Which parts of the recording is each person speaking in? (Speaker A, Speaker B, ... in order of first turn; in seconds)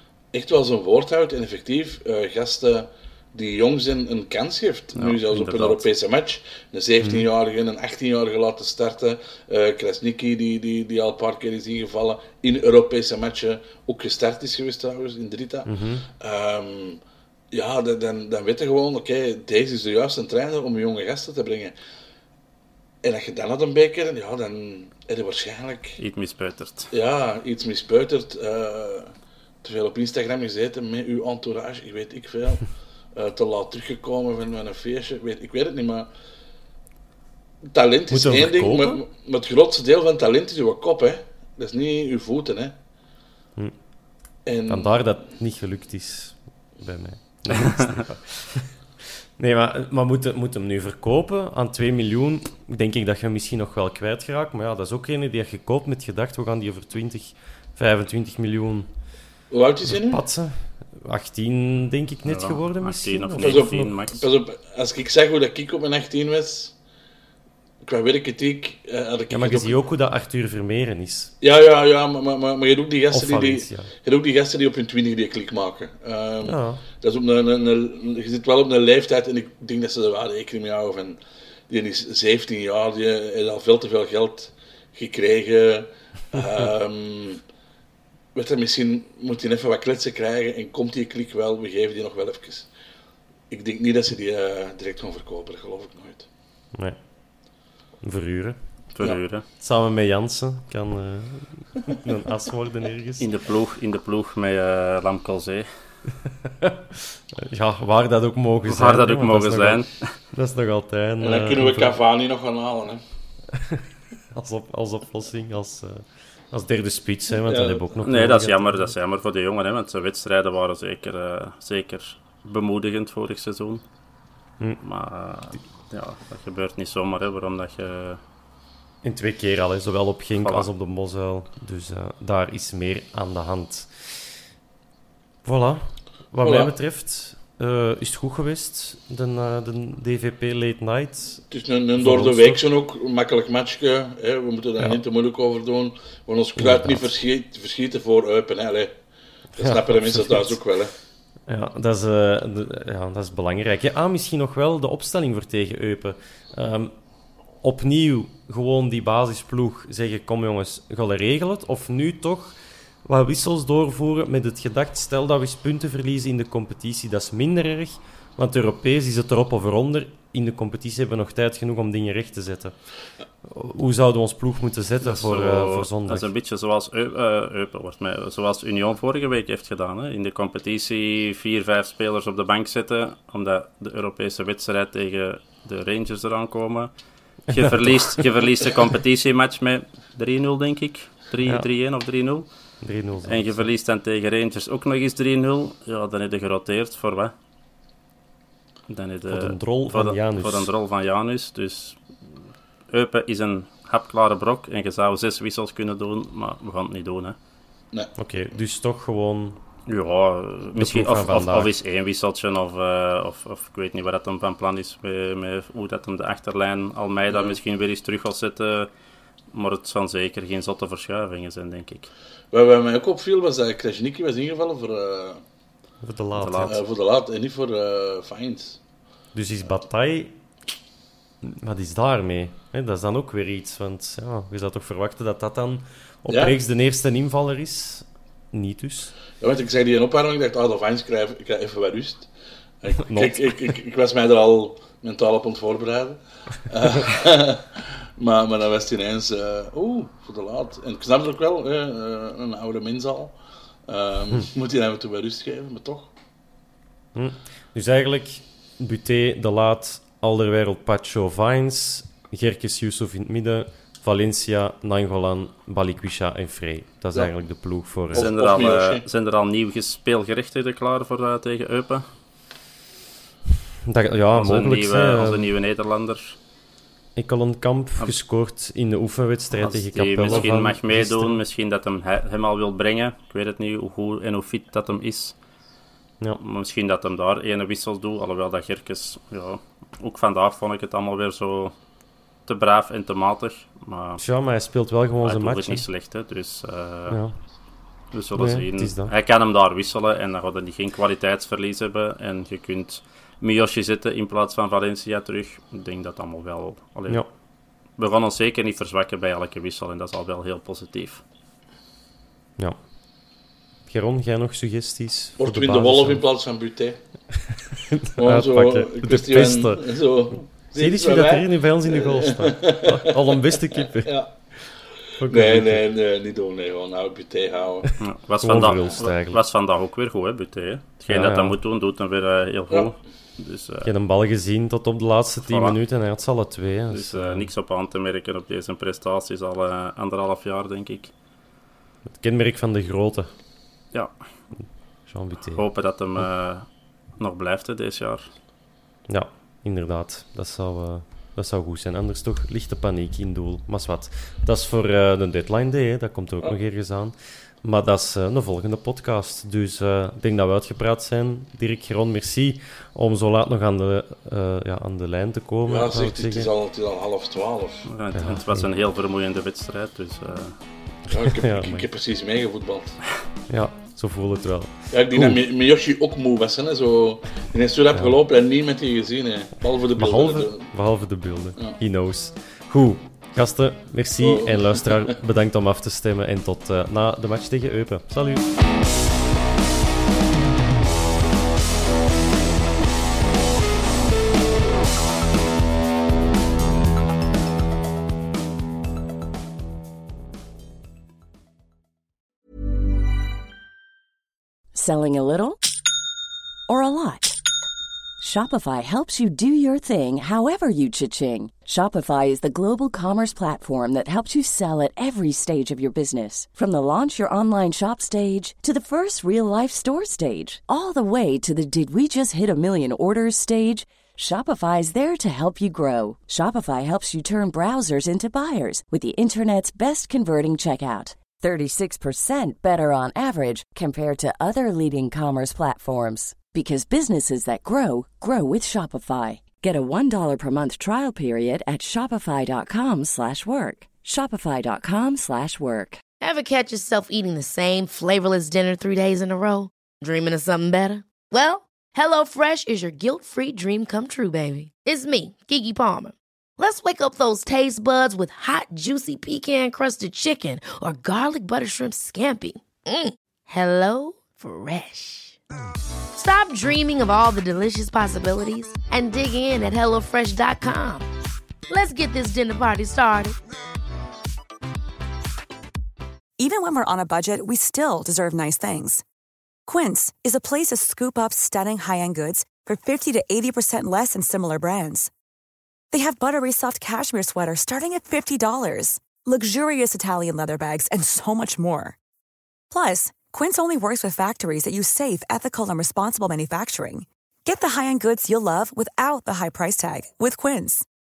Speaker A: 0.3-17.0, 17.5-21.8, 23.0-26.0, 26.9-29.1, 29.6-36.1, 37.7-42.8, 44.5-45.0, 59.5-60.2, 63.4-66.7, 67.8-69.8, 71.4-87.4, 88.3-92.7, 93.5-96.3, 111.2-113.0, 117.4-117.8, 136.4-136.7, 141.5-149.0, 149.6-150.9, 217.3-217.6, 222.5-225.4, 226.6-228.8, 236.3-236.6, 239.4-242.3, 242.8-253.4, 253.9-256.1, 268.1-269.0, 315.4-317.0, 318.2-324.3, 325.2-327.9, 365.7-367.9, 371.1-373.0, 374.9-380.7, 384.2-385.1
Speaker B: 5.0-5.9, 26.0-26.9, 62.3-64.3, 99.0-99.4, 103.2-105.7, 108.7-110.1, 118.0-123.8, 124.8-128.2, 130.4-130.7, 175.0-186.9, 187.5-192.5, 193.2-197.3, 198.9-202.4, 202.9-207.4, 209.9-218.9, 219.5-222.1, 226.4-226.8, 268.1-272.1, 274.4-276.4, 279.6-285.4, 286.4-291.8, 292.5-294.2, 295.2-297.2, 298.1-307.3, 308.0-311.2, 328.0-333.9, 335.4-335.8, 336.9-341.1, 345.5-346.6, 347.2-348.3, 367.9-370.6
Speaker C: 7.0-7.3, 15.7-16.1, 38.1-39.0, 44.7-48.7, 49.4-58.9, 59.9-63.7, 69.3-71.3, 73.1-73.9, 76.4-76.8, 98.0-98.6, 99.6-103.3, 106.5-109.8, 110.3-112.0, 113.5-119.0, 129.0-134.2, 135.4-141.4, 142.0-142.6, 146.6-147.1, 149.6-150.6, 151.5-156.9, 157.6-172.8, 173.4-176.3, 187.5-188.2, 192.8-193.7, 199.3-200.7, 208.2-209.6, 210.8-211.7, 226.0-226.8, 229.3-230.3, 231.4-239.1, 243.0-243.7, 257.1-268.3, 273.9-275.5, 277.2-281.4, 294.2-295.9, 297.1-297.4, 298.4-299.1, 313.9-316.2, 317.7-320.0, 320.8-324.2, 325.2-325.8, 328.4-329.4, 331.1-331.6, 333.8-337.5, 342.1-343.3, 345.1-345.6, 349.1-366.5, 368.1-368.7, 371.3-371.9, 373.5-375.4, 380.0-388.5
Speaker D: 404.7-405.6, 406.7-407.4, 408.2-446.0
Speaker E: 446.2-465.4, 466.2-471.1, 471.7-473.4
Speaker F: 476.4-479.0, 479.7-485.1, 485.9-492.0, 492.7-500.9